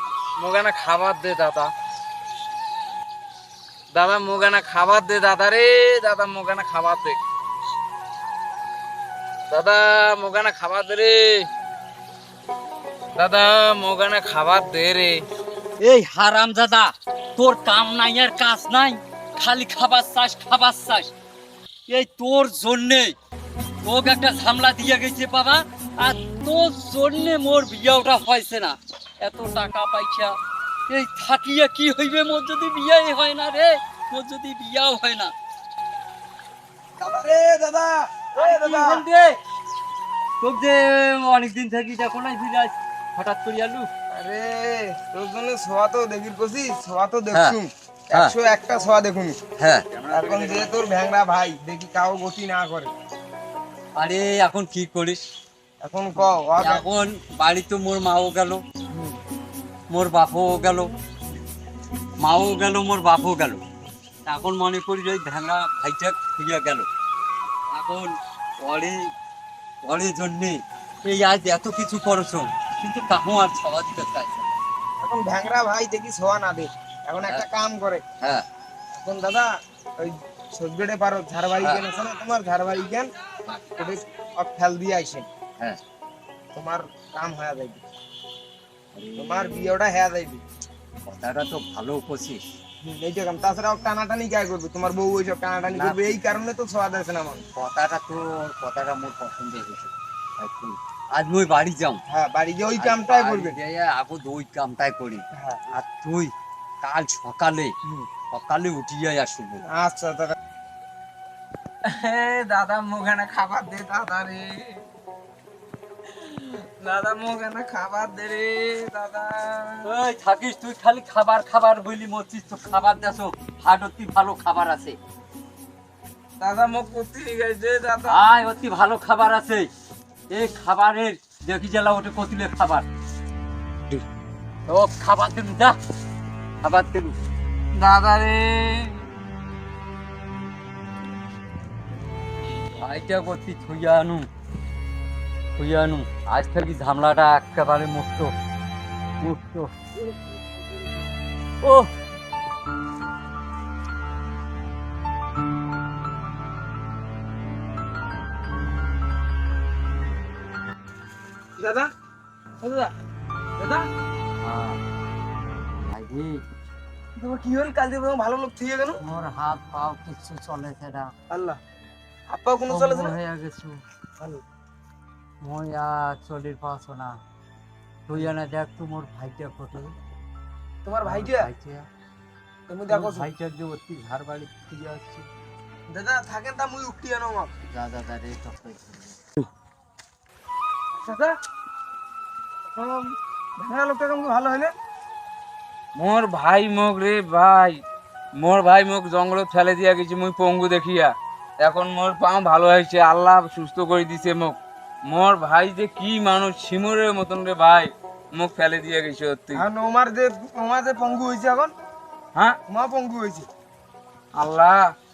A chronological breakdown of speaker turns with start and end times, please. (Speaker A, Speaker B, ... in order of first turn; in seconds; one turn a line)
Speaker A: 0.4-1.7
Speaker A: 3.9-7.2
Speaker A: 9.5-11.5
Speaker A: 13.2-15.3
Speaker B: 15.8-21.1
Speaker B: 21.9-23.1
Speaker B: 23.8-30.4
Speaker B: 30.9-35.3
Speaker C: 37.0-39.0
Speaker B: 38.4-39.4
Speaker B: 40.4-43.9
Speaker C: 44.1-49.4
Speaker B: 47.3-47.6
Speaker B: 49.6-50.7
Speaker C: 50.1-52.9
Speaker B: 54.0-55.2
Speaker C: 55.8-56.9
Speaker B: 56.6-58.6
Speaker B: 59.9-60.9
Speaker B: 62.2-63.6
Speaker B: 64.2-66.9
Speaker B: 67.7-69.0
Speaker B: 69.8-74.5
Speaker C: 75.0-78.0
Speaker C: 79.0-79.5
Speaker C: 80.0-83.1
Speaker C: 83.8-85.3
Speaker C: 86.5-87.8
Speaker B: 88.9-89.7
Speaker C: 89.2-90.4
Speaker B: 91.0-92.4
Speaker C: 92.8-97.4
Speaker B: 95.7-96.2
Speaker B: 97.6-102.0
Speaker C: 102.1-103.6
Speaker B: 102.8-107.7
Speaker C: 105.4-105.7
Speaker B: 108.3-109.6
Speaker C: 109.7-110.3
Speaker A: 111.8-114.8
Speaker A: 116.1-119.8
Speaker B: 119.8-125.0
Speaker A: 126.4-128.2
Speaker B: 128.1-129.7
Speaker B: 130.3-132.9
Speaker B: 134.7-135.8
Speaker B: 136.6-137.2
Speaker A: 137.7-139.1
Speaker B: 142.8-144.2
Speaker B: 145.6-148.3
Speaker B: 149.2-149.7
Speaker B: 151.6-151.9
Speaker C: 161.6-161.9
Speaker C: 162.6-162.9
Speaker C: 163.6-163.9
Speaker B: 164.4-164.8
Speaker B: 165.9-166.4
Speaker C: 167.2-169.0
Speaker B: 169.0-171.1
Speaker C: 171.3-171.6
Speaker C: 172.3-173.2
Speaker B: 172.7-173.8
Speaker B: 175.4-177.2
Speaker B: 178.1-180.0
Speaker C: 180.8-181.5
Speaker B: 181.0-181.9
Speaker C: 182.7-183.3
Speaker B: 182.9-185.3
Speaker C: 185.9-187.5
Speaker B: 187.7-189.2
Speaker C: 191.0-191.3
Speaker C: 192.7-194.7
Speaker A: 195.9-197.8
Speaker A: 198.4-209.7
Speaker C: 209.5-211.7
Speaker C: 212.7-213.5
Speaker A: 214.3-214.9